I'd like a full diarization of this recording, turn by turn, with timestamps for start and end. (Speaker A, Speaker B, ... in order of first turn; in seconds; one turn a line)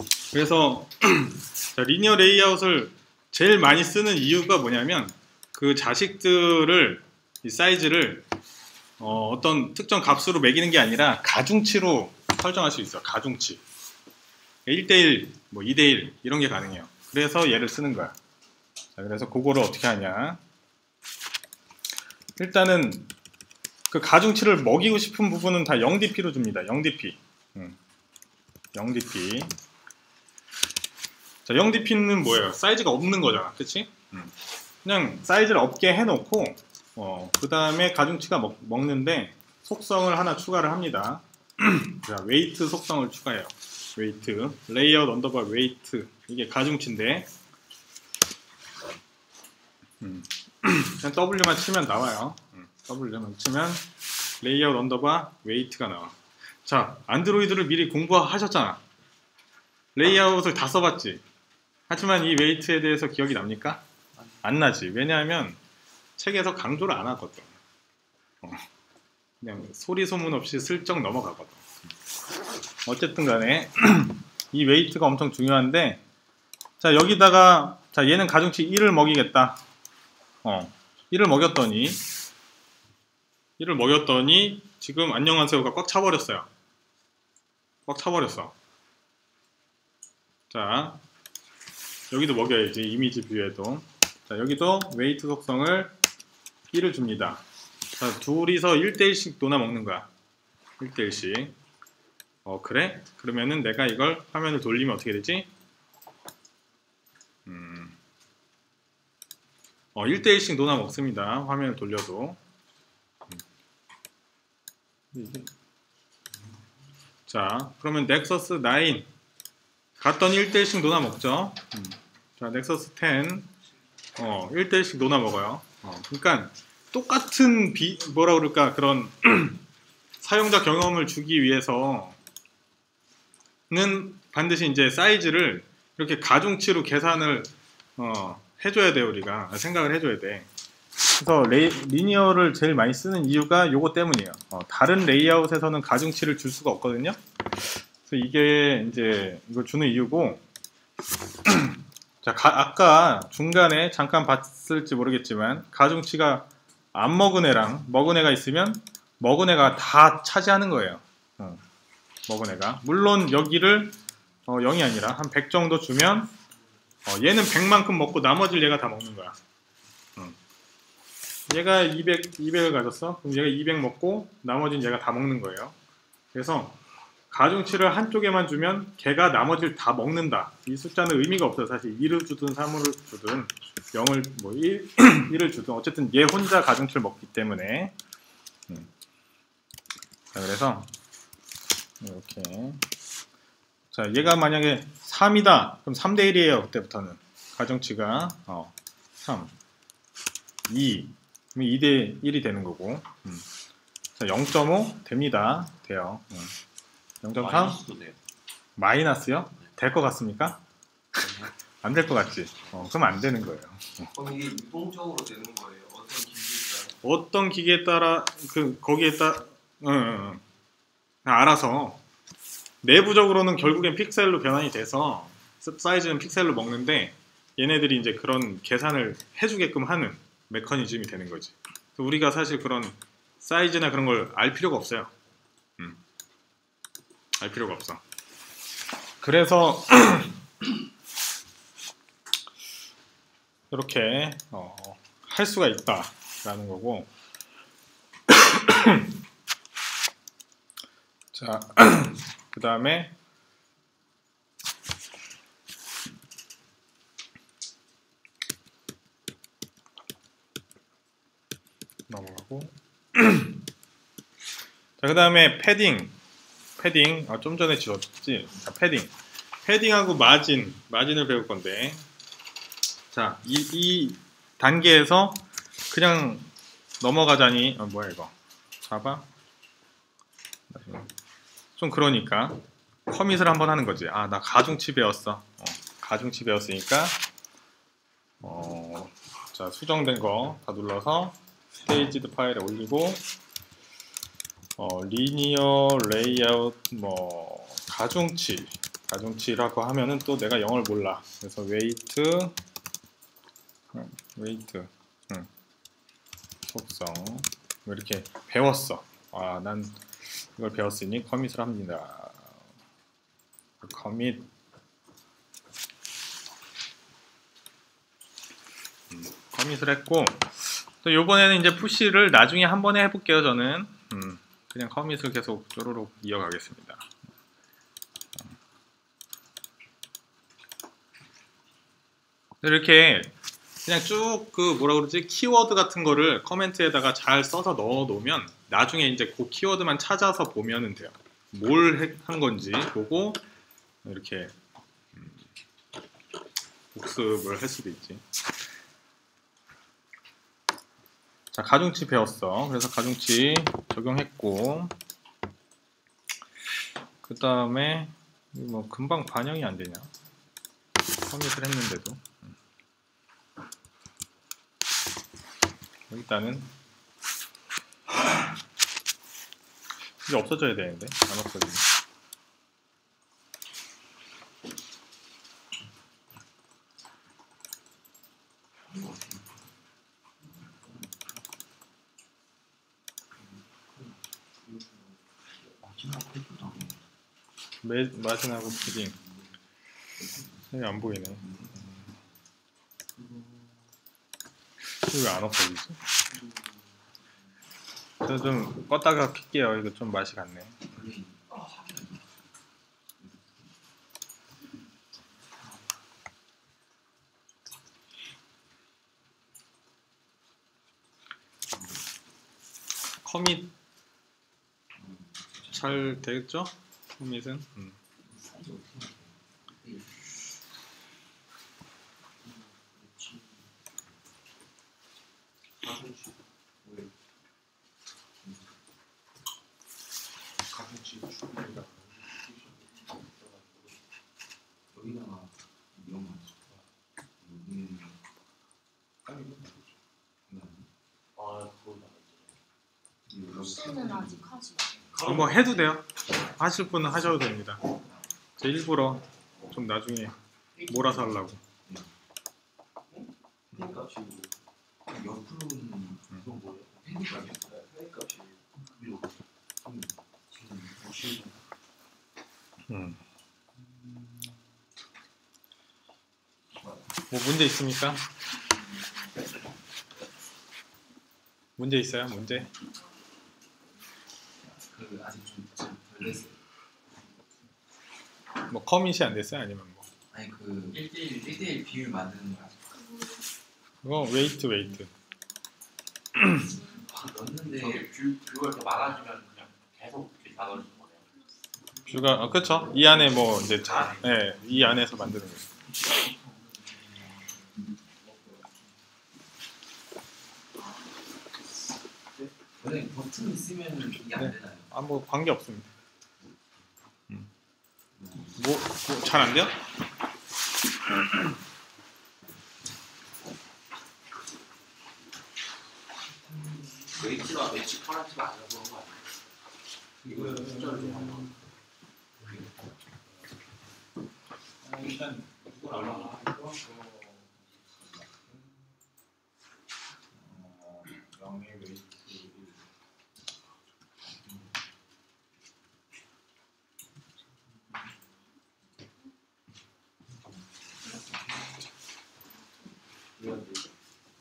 Speaker A: 0.3-8.3
Speaker A: 9.0-13.6
Speaker A: 14.7-18.2
Speaker A: 19.0-20.4
Speaker A: 22.4-23.1
Speaker A: 23.9-27.8
Speaker A: 28.7-29.6
Speaker A: 31.4-47.3
Speaker A: 50.0-53.9
Speaker A: 54.4-58.8
Speaker A: 60.0-61.2
Speaker A: 61.9-63.8
Speaker A: 64.4-65.6
Speaker A: 66.2-67.5
Speaker A: 69.4-71.7
Speaker A: 72.9-76.0
Speaker A: 76.8-79.6
Speaker A: 80.4-82.0
Speaker A: 83.6-86.5
Speaker A: 87.9-88.5
Speaker A: 90.5-91.0
Speaker A: 92.1-96.0
Speaker A: 96.7-97.4
Speaker A: 98.0-100.1
Speaker A: 100.8-101.6
Speaker A: 102.5-105.5
Speaker A: 107.5-108.0
Speaker A: 110.0-112.4
Speaker A: 115.1-115.5
Speaker A: 117.3-119.1
Speaker A: 120.0-123.5
Speaker A: 124.2-129.6
Speaker A: 130.2-132.2
Speaker A: 133.7-140.5
Speaker A: 141.1-150.4
Speaker A: 151.5-161.6
Speaker A: 162.3-166.3
Speaker A: 167.1-169.4
Speaker A: 171.5-175.8
Speaker A: 176.3-176.8
Speaker A: 177.3-187.9
Speaker A: 190.3-190.9
Speaker A: 192.0-192.8
Speaker A: 193.9-199.5
Speaker A: 200.7-203.5
Speaker A: 204.2-206.5
Speaker A: 207.2-207.8
Speaker B: 207.4-208.2
Speaker A: 208.8-210.6
Speaker A: 211.8-214.1
Speaker C: 214.1-217.0
Speaker A: 217.0-220.4
Speaker A: 221.2-222.0
Speaker A: 222.8-235.1
Speaker A: 237.4-238.0
Speaker A: 239.2-240.4
Speaker A: 243.7-247.1
Speaker A: 248.3-249.1
Speaker A: 251.3-253.2
Speaker A: 262.1-263.6
Speaker A: 265.0-266.1
Speaker A: 266.8-269.1
Speaker A: 269.6-272.1
Speaker A: 273.1-278.3
Speaker A: 278.9-279.3
Speaker A: 280.7-281.1
Speaker A: 281.8-287.2
Speaker A: 288.4-293.2
Speaker A: 294.8-302.6
Speaker A: 303.9-305.5
Speaker A: 306.6-312.6
Speaker A: 313.8-314.5
Speaker A: 319.1-327.1
Speaker A: 332.6-343.4
Speaker A: 344.0-345.4
Speaker A: 346.9-348.2
Speaker A: 351.5-354.9
Speaker A: 357.2-360.1
Speaker A: 361.3-362.5
Speaker A: 366.1-366.7
Speaker A: 370.2-371.9
Speaker D: 378.9-379.4
Speaker D: 385.9-387.0
Speaker A: 387.8-389.2
Speaker D: 389.2-389.4
Speaker A: 390.7-391.5
Speaker D: 391.4-392.0
Speaker D: 393.2-393.7
Speaker A: 394.9-396.0
Speaker D: 396.4-396.8
Speaker A: 398.2-400.9
Speaker D: 400.9-402.1
Speaker A: 413.2-413.7
Speaker D: 415.0-415.8
Speaker A: 415.7-417.9
Speaker D: 418.2-420.3
Speaker D: 422.4-423.7
Speaker C: 425.8-427.1
Speaker C: 430.7-432.8
Speaker C: 433.4-433.7
Speaker D: 434.9-436.8
Speaker D: 437.4-438.2
Speaker D: 439.3-439.8
Speaker D: 440.5-440.9
Speaker B: 441.4-442.6
Speaker D: 443.3-444.8
Speaker C: 445.2-445.4
Speaker A: 445.2-447.8
Speaker A: 448.6-451.6
Speaker C: 453.1-454.5
Speaker D: 455.1-457.6
Speaker C: 457.5-458.6
Speaker D: 459.8-461.5
Speaker A: 462.9-463.2
Speaker A: 467.3-468.2
Speaker A: 471.8-472.7
Speaker D: 474.6-476.6
Speaker A: 478.7-480.1
Speaker D: 480.3-482.8
Speaker A: 484.0-485.1
Speaker A: 486.4-486.7
Speaker D: 486.9-488.1
Speaker B: 487.7-491.3
Speaker A: 492.1-495.7
Speaker D: 502.8-504.9
Speaker A: 504.4-505.9
Speaker D: 508.2-508.5
Speaker A: 508.6-509.8
Speaker B: 517.2-519.3
Speaker A: 520.4-521.0
Speaker B: 520.6-521.3
Speaker A: 524.8-527.5
Speaker A: 528.1-528.6
Speaker A: 530.4-532.8
Speaker C: 543.4-543.9